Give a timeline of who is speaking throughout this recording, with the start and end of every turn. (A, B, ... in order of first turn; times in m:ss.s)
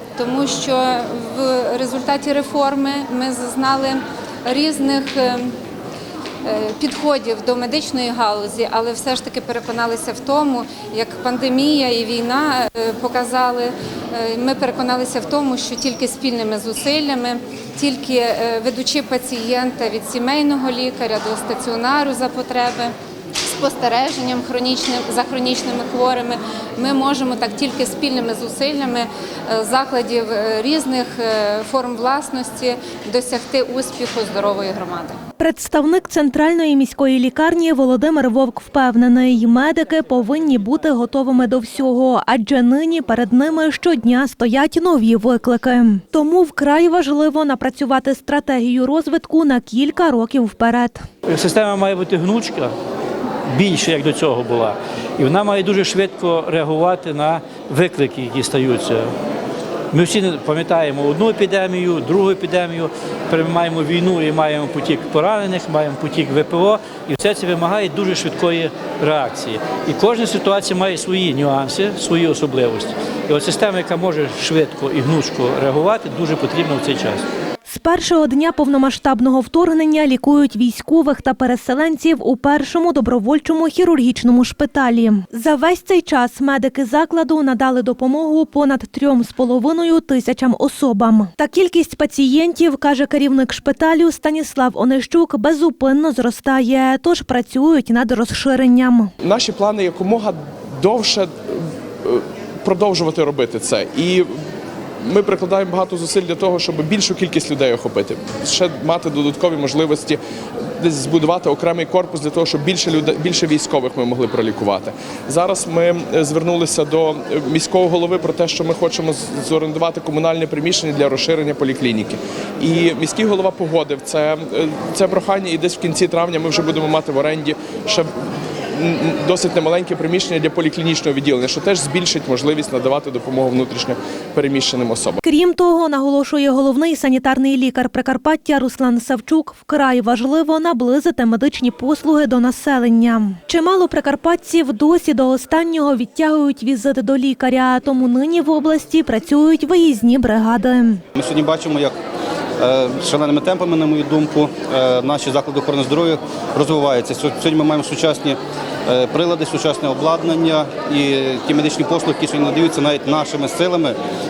0:00.2-0:05.5 A
0:06.4-0:22.9 A
0:23.4-0:35.2 A
0:35.4-0:51.0 B
0:51.3-0:52.7 C
0:53.5-0:59.1 C
0:59.9-1:17.2 C
1:17.7-1:39.1 B
1:39.2-1:44.3 D
1:45.0-2:15.2 D
2:15.2-2:31.0 B
2:31.2-2:31.9 E
2:32.6-2:44.0 E